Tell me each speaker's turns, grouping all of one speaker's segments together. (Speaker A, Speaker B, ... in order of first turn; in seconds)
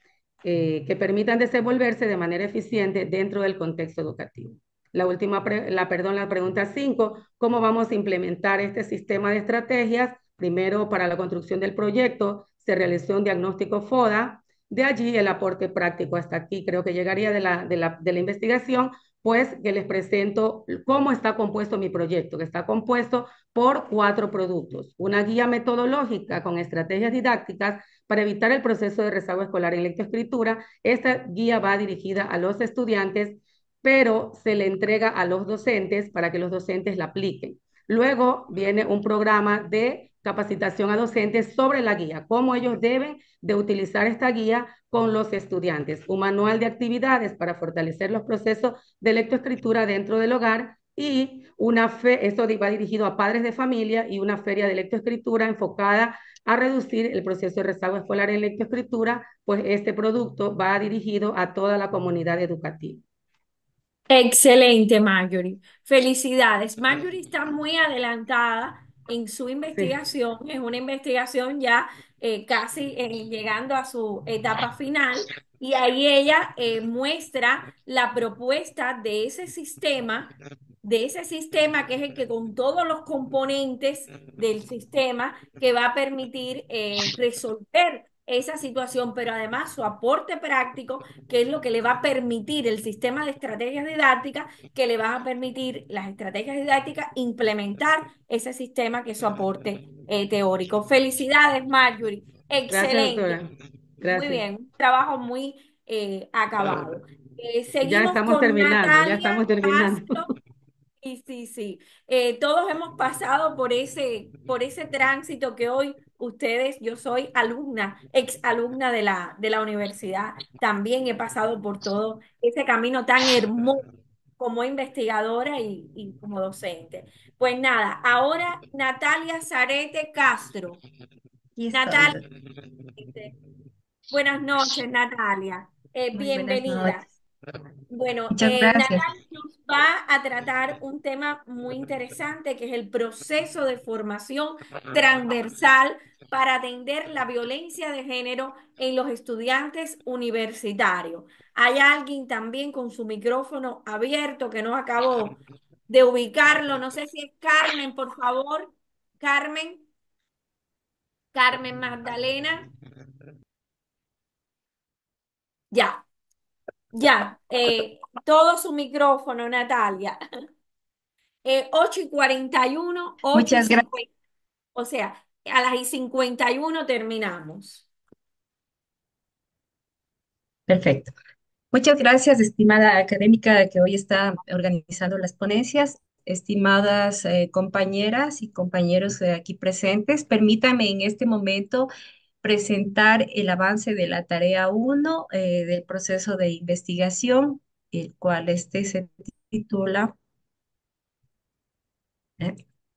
Speaker A: 0.4-63.0, 102.7-104.4, 107.8-110.2
Speaker B: 64.1-80.3, 80.8-103.4, 104.0-110.3, 111.0-123.8, 124.4-130.8, 131.7-132.2, 133.0-133.3, 134.1-137.0, 137.9-155.3, 155.9-159.8, 161.3-162.7, 165.7-166.0, 166.9-170.2, 171.4-174.1, 174.7-177.9
Speaker C: 136.3-136.9, 138.3-139.0, 173.3-173.9, 180.7-181.1, 181.7-191.9, 192.4-200.2